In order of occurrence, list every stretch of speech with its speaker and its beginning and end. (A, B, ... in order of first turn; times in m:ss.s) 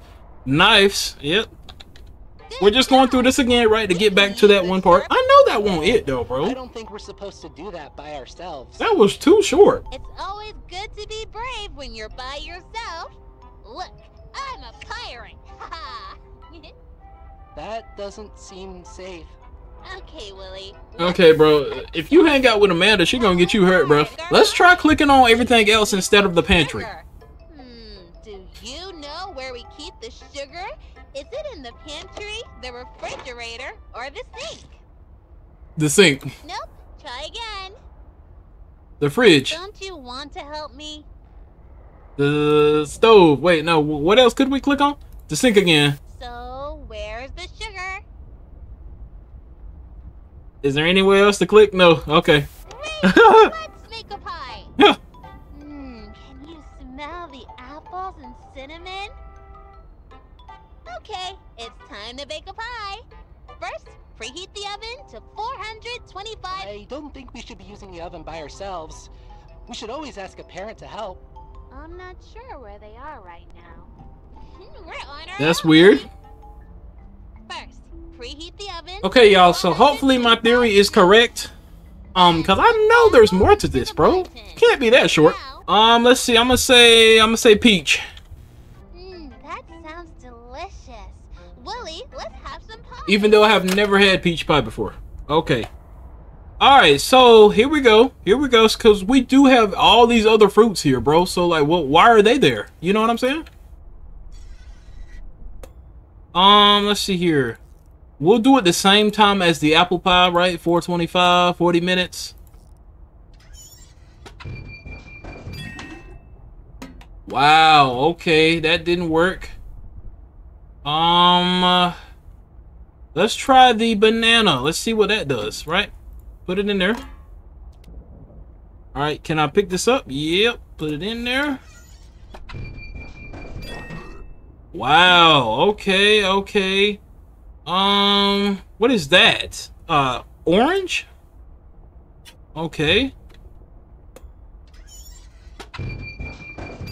0:00.4-0:01.5 A
0:02.5-0:03.4 B
0:02.6-0:06.6 A
0:03.9-0:06.0 B
0:05.6-0:08.8 C
0:08.8-0:09.8 A
0:09.9-0:16.7 B
0:17.5-0:19.4 C
0:19.8-0:22.5 B
0:21.0-0:26.9 A
0:23.1-0:34.8 B
0:35.8-0:36.3 A
0:36.4-0:37.8 B
0:39.0-0:39.6 A
0:39.5-0:41.1 B
0:42.2-0:46.0 A
0:46.1-0:48.0 B
0:50.6-0:52.5 A
0:52.7-0:54.7 B
0:53.0-0:53.5 A
0:55.5-0:59.1 B
1:00.9-1:03.0 B
1:03.6-1:06.8 B
1:06.5-1:09.1 C
1:09.7-1:11.2 C
1:11.7-1:16.1 B
1:15.4-1:16.0 A
1:17.4-1:21.2 B
1:19.0-1:21.5 A
1:22.1-1:25.7 B
1:22.1-1:28.0 A
1:28.9-1:33.6 B
1:33.1-1:35.7 A
1:36.6-1:43.4 A
1:46.3-1:47.6 A
1:48.2-1:52.3 A
1:57.3-1:59.5 A
2:00.8-2:01.9 A
2:03.1-2:05.9 A
2:06.4-2:07.0 A
2:08.9-2:11.6 A
2:14.7-2:17.0 A
2:17.6-2:21.0 A
2:22.5-2:23.1 A